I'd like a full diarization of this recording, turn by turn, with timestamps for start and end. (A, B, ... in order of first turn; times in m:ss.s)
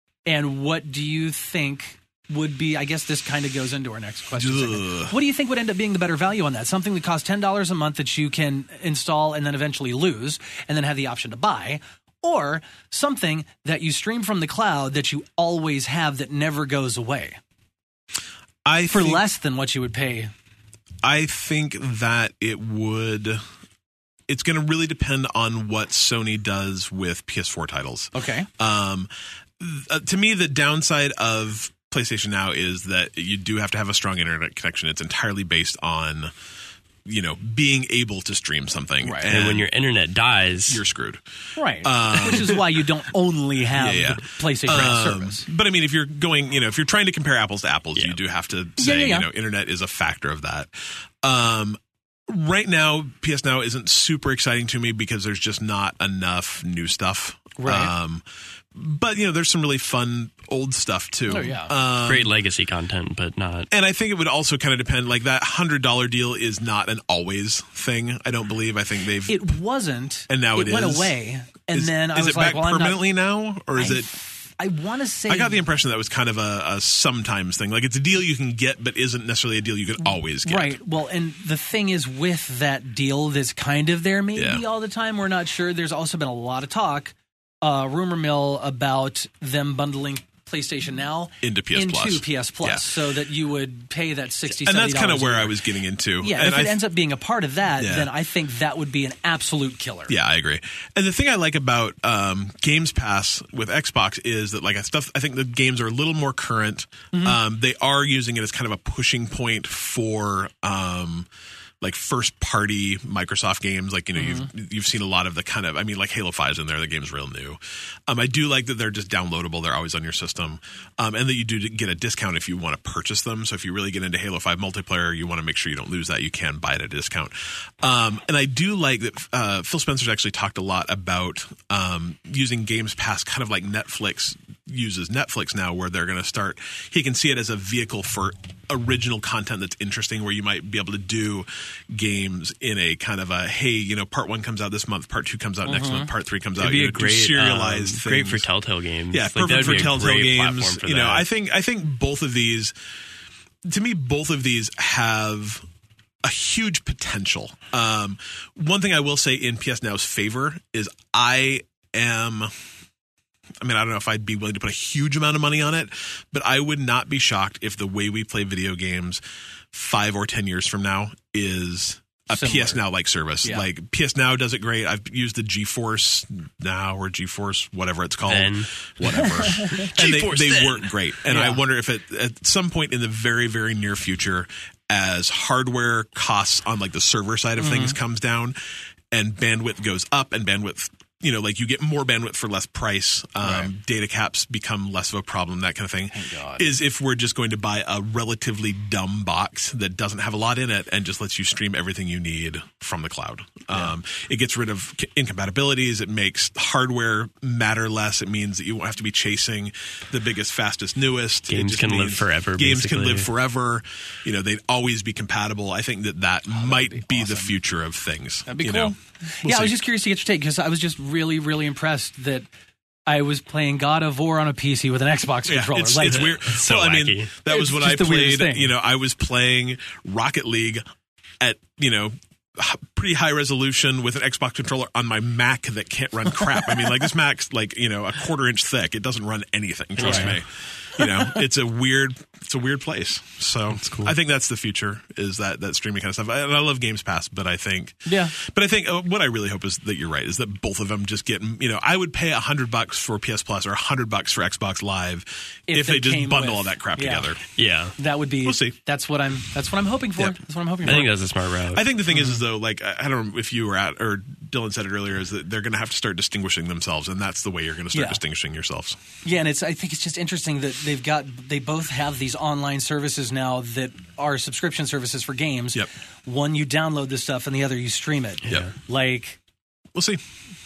0:00.3-0:17.4 A
0:04.4-0:05.1 B
0:18.6-0:19.2 B
0:18.9-0:20.3 A
0:21.0-0:23.4 B
0:24.3-0:36.3 B
0:28.1-0:28.5 A
0:37.0-0:39.7 B
0:39.0-0:39.3 A
0:39.3-0:40.8 C
0:40.7-0:41.2 B
0:41.6-0:45.4 A
0:41.8-0:42.8 B
0:43.7-1:02.3 B
0:48.8-0:49.3 A
0:57.6-0:57.9 A
1:01.3-1:01.7 A
1:01.9-1:03.7 C
1:03.7-1:09.4 B
1:09.3-1:13.0 A
1:10.3-1:11.2 B
1:11.7-1:14.1 B
1:13.8-1:15.6 A
1:15.3-1:20.8 B
1:20.4-1:35.6 A
1:24.4-1:24.6 B
1:31.4-1:32.9 B
1:34.5-1:36.8 B
1:36.2-1:40.1 A
1:37.8-1:38.1 B
1:40.1-1:51.3 B
1:47.1-1:47.4 A
1:51.8-2:28.5 B
1:54.2-1:54.5 A
2:25.7-2:26.1 A
2:26.6-2:31.2 C
2:29.1-2:32.8 B
2:33.7-2:35.6 B
2:36.2-2:42.5 B
2:43.6-2:49.2 B
2:49.7-3:08.6 B
2:52.3-2:52.8 A
2:58.3-3:00.9 C
2:59.2-2:59.9 A
3:01.3-3:01.6 A
3:07.6-3:08.0 A
3:09.1-3:39.8 B
3:16.1-3:16.7 A
3:31.5-3:33.3 C
3:36.5-3:37.5 A
3:38.5-3:42.4 A
3:43.1-3:46.2 A
3:45.5-3:50.8 B
3:46.1-3:47.3 C
3:47.5-3:48.7 A
3:51.4-4:17.4 B
4:00.0-4:00.4 C
4:00.0-4:00.3 A
4:01.0-4:01.4 A
4:03.7-4:04.1 C
4:08.1-4:08.4 A
4:15.7-4:17.4 A
4:17.6-4:18.0 C
4:18.0-4:21.1 A
4:18.4-4:18.8 B
4:20.8-4:21.8 C
4:21.7-4:29.0 B
4:22.1-4:22.4 A
4:27.9-4:28.2 A
4:29.2-4:39.4 A
4:40.0-4:40.2 B